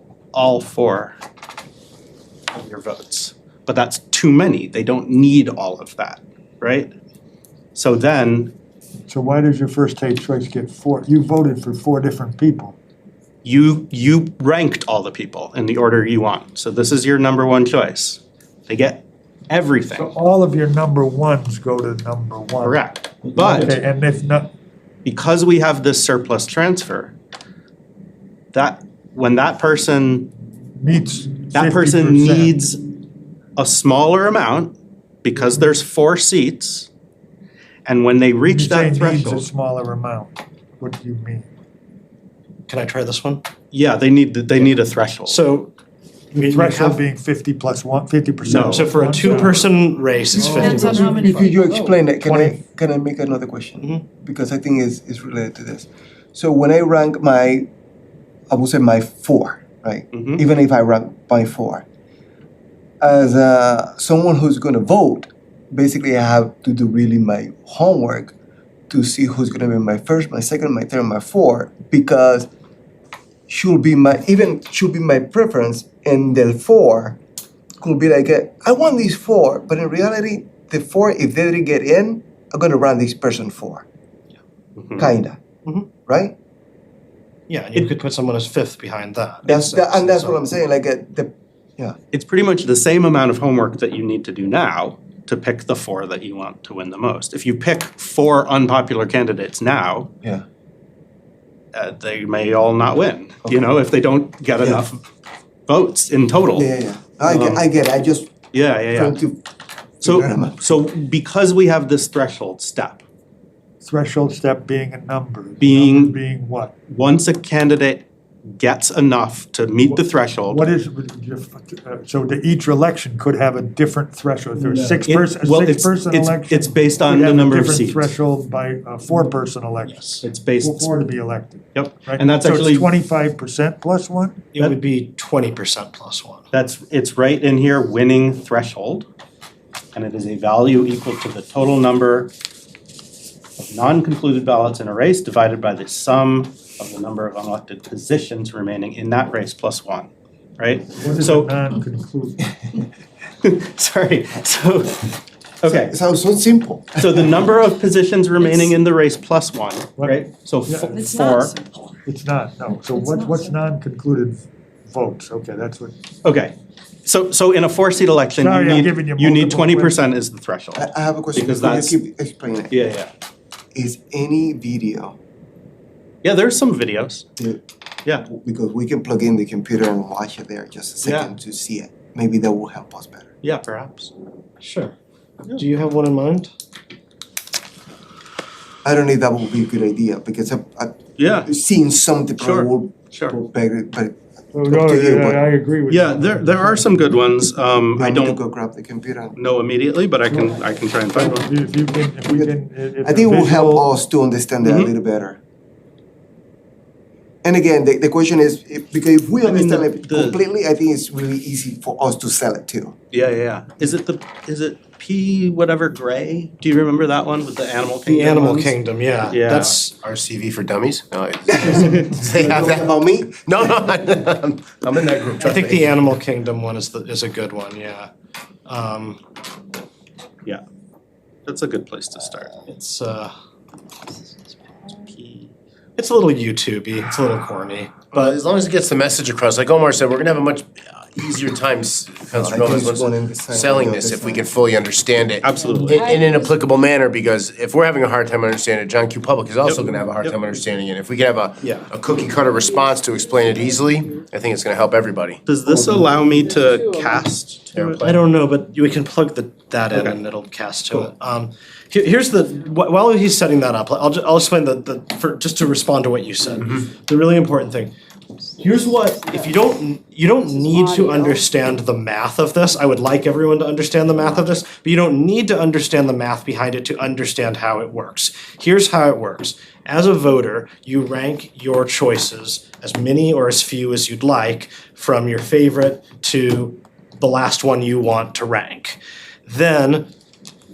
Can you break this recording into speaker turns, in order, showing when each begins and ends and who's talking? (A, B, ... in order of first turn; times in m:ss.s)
0:00.3-0:01.2 A
0:02.5-0:06.9 A
0:07.8-0:08.5 A
0:09.1-0:12.8 B
0:13.4-0:20.1 A
0:19.9-0:22.8 B
0:22.6-0:23.8 A
0:23.5-0:24.5 B
0:25.0-0:27.1 A
0:28.5-0:30.3 A
0:30.8-0:32.6 B
0:31.5-0:32.8 A
0:33.6-0:36.9 A
0:37.9-0:39.4 A
0:38.4-0:41.5 B
0:42.7-0:43.5 C
0:43.7-0:45.4 A
0:44.6-0:45.7 C
0:46.3-0:49.8 B
0:46.4-0:47.0 C
0:48.4-0:48.9 A
0:48.5-0:51.3 C
0:50.4-0:51.5 B
0:50.4-0:52.0 D
0:51.2-0:57.7 E
0:52.2-0:52.6 B
0:58.5-1:01.8 E
1:00.1-1:00.4 A
1:03.0-1:08.3 E
1:08.9-1:12.5 E
1:13.5-1:17.2 E
1:17.8-1:23.8 E
1:24.8-1:25.1 A
1:25.0-1:25.4 E
1:26.1-1:26.4 E
1:27.5-1:30.4 C
1:29.4-1:32.0 E
1:32.1-1:40.1 A
1:41.7-1:45.0 A
1:44.6-1:44.9 E
1:45.7-1:46.7 A
1:46.5-1:48.3 E
1:47.2-1:47.7 A
1:48.5-1:49.2 A
1:48.9-1:49.4 E
1:50.0-1:50.6 E
1:50.0-1:53.0 A
1:53.8-1:56.7 B
1:55.6-1:56.2 A
1:56.9-2:00.8 A
1:59.8-2:14.4 B
2:04.6-2:08.1 A
2:09.9-2:10.2 C
2:10.2-2:11.0 A
2:11.7-2:12.9 A
2:14.5-2:16.4 C
2:16.5-2:19.1 A
2:20.0-2:22.3 A
2:23.6-2:31.6 A
2:31.0-2:32.5 B
2:33.4-2:36.0 A
2:35.6-2:37.5 E
2:37.0-2:41.6 A
2:40.0-2:41.1 B
2:40.9-2:42.0 D
2:42.0-2:46.0 B
2:42.8-2:43.6 D
2:46.2-2:52.0 A
2:48.3-2:50.1 B
2:50.8-2:52.8 E
2:52.7-2:53.1 A
2:53.7-2:55.2 E
2:56.2-2:57.3 A
2:58.1-3:03.3 E
3:01.0-3:01.4 A
3:03.4-3:04.1 A
3:04.6-3:04.9 C
3:05.5-3:06.5 C
3:08.8-3:15.4 E
3:11.2-3:11.5 A
3:12.4-3:13.4 A
3:14.5-3:17.2 B
3:15.9-3:18.4 A
3:17.9-3:19.4 E
3:19.4-3:21.5 A
3:20.3-3:23.9 B
3:22.2-3:25.4 E
3:24.6-3:24.9 A
3:27.4-3:33.0 E
3:29.4-3:30.4 A
3:33.1-3:38.8 A
3:38.0-3:40.0 C
3:39.3-3:39.8 A
3:39.9-3:46.0 F
3:41.5-3:43.5 E
3:45.4-3:48.1 C
3:48.7-3:49.2 C
3:51.5-3:52.5 A
3:52.6-3:53.3 C
3:55.1-3:55.5 A
3:56.0-3:58.4 C
3:58.1-4:15.4 F
4:02.4-4:04.5 E
4:05.4-4:06.0 A
4:05.6-4:06.6 D
4:09.6-4:10.4 A
4:11.6-4:11.9 C
4:12.3-4:14.2 D
4:15.4-4:18.0 A
4:15.7-4:17.3 D
4:17.7-4:18.2 F
4:18.0-4:27.9 C
4:19.9-4:20.2 A
4:28.6-4:50.1 C
4:28.8-4:29.5 D
4:30.5-4:31.5 D